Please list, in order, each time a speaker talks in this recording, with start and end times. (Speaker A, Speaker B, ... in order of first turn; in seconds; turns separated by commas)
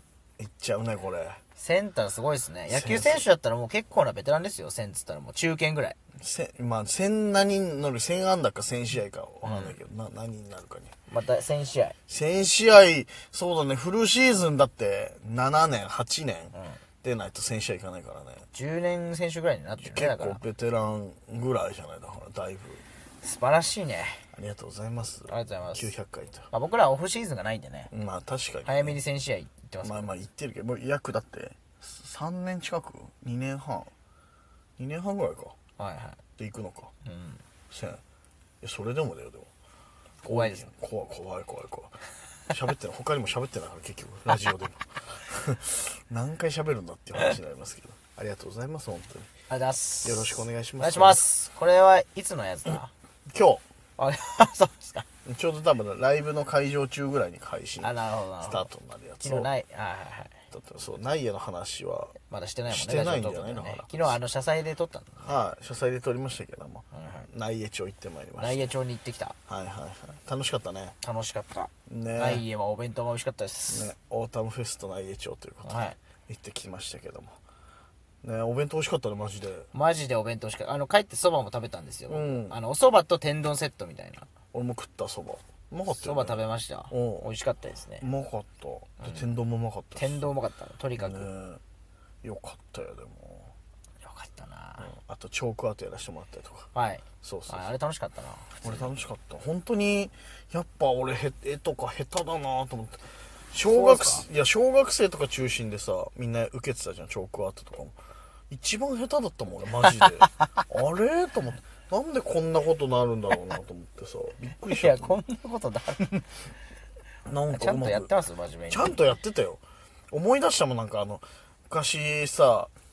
Speaker A: 0.4-1.4, Speaker B: 1.6-6.0, Speaker A: 2.7-3.2, Speaker A: 6.2-10.9, Speaker B: 9.4-9.8, Speaker B: 11.1-11.9, Speaker A: 12.1-18.4, Speaker B: 16.5-16.8, Speaker B: 18.5-20.4, Speaker A: 19.8-22.8, Speaker B: 23.2-24.3, Speaker A: 24.3-26.5, Speaker B: 25.3-25.9, Speaker B: 26.5-27.9, Speaker A: 27.9-29.0, Speaker B: 28.6-30.1, Speaker A: 29.8-33.9, Speaker A: 34.8-35.5, Speaker B: 35.8-36.2, Speaker A: 36.4-36.9, Speaker B: 37.0-37.4, Speaker A: 37.7-38.0, Speaker A: 38.6-39.5, Speaker A: 40.2-42.0, Speaker B: 40.2-40.6, Speaker A: 42.5-49.3, Speaker B: 49.5-52.9, Speaker A: 50.0-51.2, Speaker A: 53.3-53.6, Speaker B: 54.0-55.0, Speaker A: 55.2-59.5, Speaker B: 57.8-58.7, Speaker B: 59.2-60.3, Speaker A: 60.5-62.2, Speaker B: 62.3-65.3, Speaker A: 62.7-64.2, Speaker A: 65.2-68.7, Speaker B: 66.9-67.3, Speaker B: 68.4-69.4, Speaker A: 69.5-70.9, Speaker B: 71.0-73.9, Speaker A: 71.9-72.4, Speaker A: 73.7-77.3, Speaker B: 75.6-76.0, Speaker A: 78.2-79.7, Speaker B: 79.7-84.3, Speaker A: 82.1-82.5, Speaker A: 84.5-87.3, Speaker B: 85.9-88.0, Speaker A: 88.0-90.3, Speaker B: 90.0-91.3, Speaker A: 91.0-91.6, Speaker A: 92.2-93.5, Speaker B: 94.0-94.9, Speaker A: 94.8-96.7, Speaker B: 96.7-98.9, Speaker A: 97.2-97.7, Speaker A: 98.6-108.0, Speaker B: 103.6-104.3, Speaker A: 108.5-115.2, Speaker B: 109.8-110.3, Speaker B: 114.6-116.3, Speaker A: 117.3-118.1, Speaker B: 117.5-119.1, Speaker A: 118.7-122.7